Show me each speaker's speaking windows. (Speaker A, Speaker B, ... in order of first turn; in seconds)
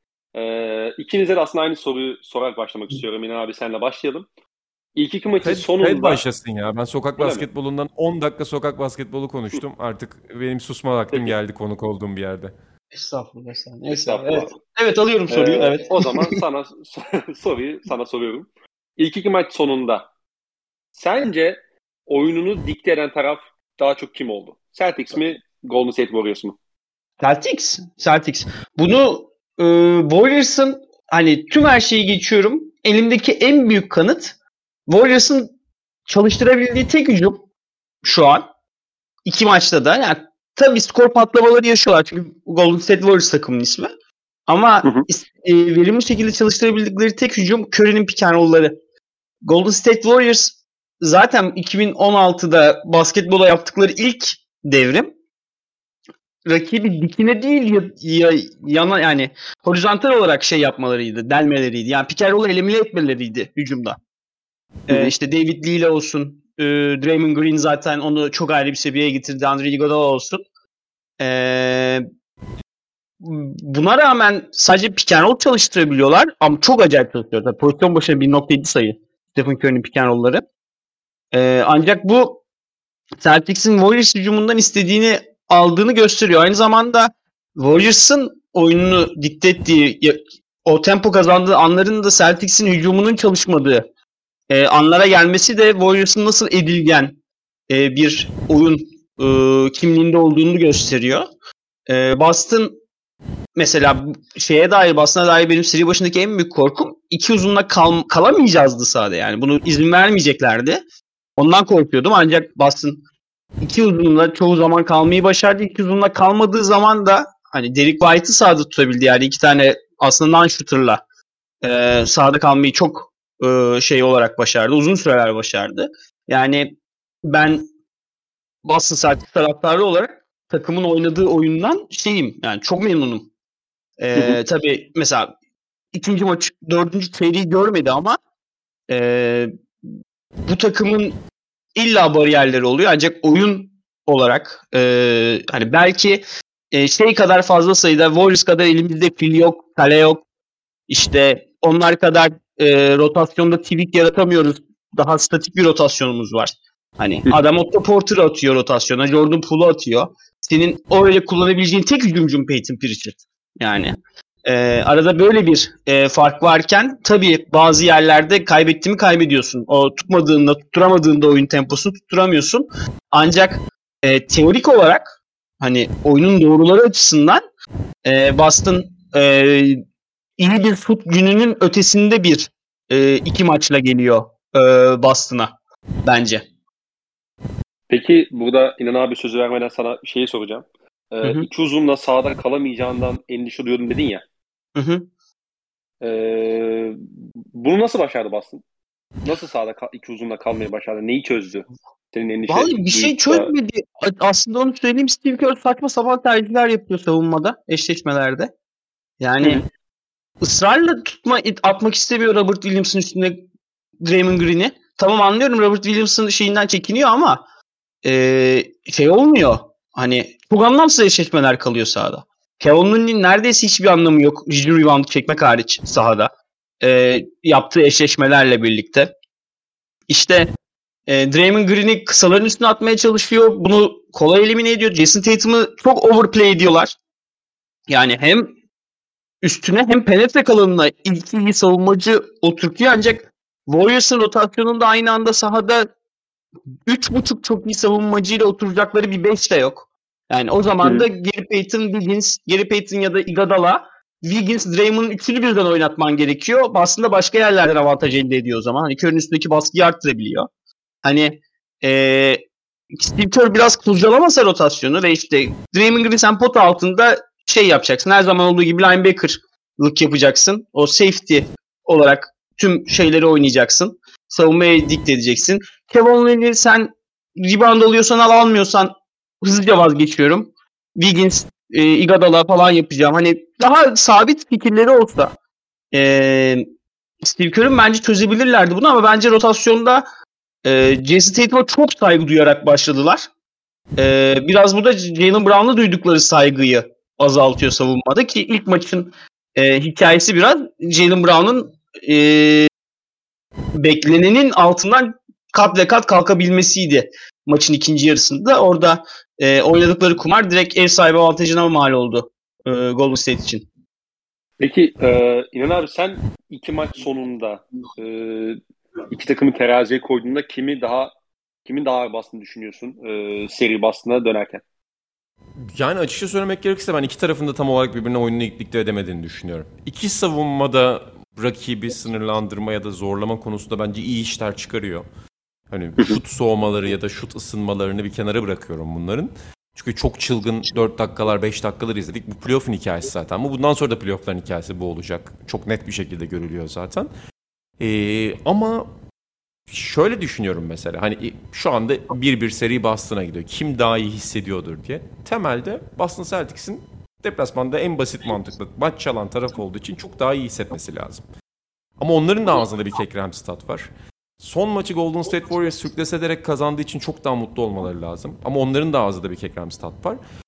Speaker A: 0.3-4.3, 5.0-6.2, 7.2-7.5, 13.9-14.6, 15.3-20.1, 20.9-26.6, 187.9-194.2, 196.0-198.6, 199.2-203.5, 250.8-251.1, 314.6-321.1, 321.6-324.6
Speaker B: 5.4-12.5, 325.6-335.1, 335.7-347.1, 347.8-348.9, 349.7-361.2, 362.0-370.2
Speaker C: 12.9-16.4, 27.2-34.3, 34.9-35.5, 36.1-37.4, 38.0-38.5, 39.2-43.9, 44.5-48.7, 49.4-55.1, 56.5-64.0, 64.9-70.4, 71.2-72.0, 73.2-80.4, 81.3-82.4, 83.2-93.8, 94.5-97.2, 97.7-101.3, 101.9-102.8, 103.5-110.8, 111.4-113.0, 113.6-121.0, 121.6-127.7, 128.6-133.3, 134.0-135.3, 135.9-138.2, 138.9-139.5, 140.4-141.2, 141.8-150.2, 150.9-177.4, 178.0-179.8, 180.4-185.5, 186.0-186.4, 194.8-195.1, 202.5-208.5, 209.2-209.6, 210.4-213.4, 214.0-217.4, 218.0-229.1, 230.1-230.5, 231.1-236.9, 237.9-238.5, 239.4-245.9, 246.9-260.5, 261.0-262.4, 262.9-285.3, 285.9-286.6, 287.2-290.0, 290.6-293.3, 293.9-302.7, 303.7-313.6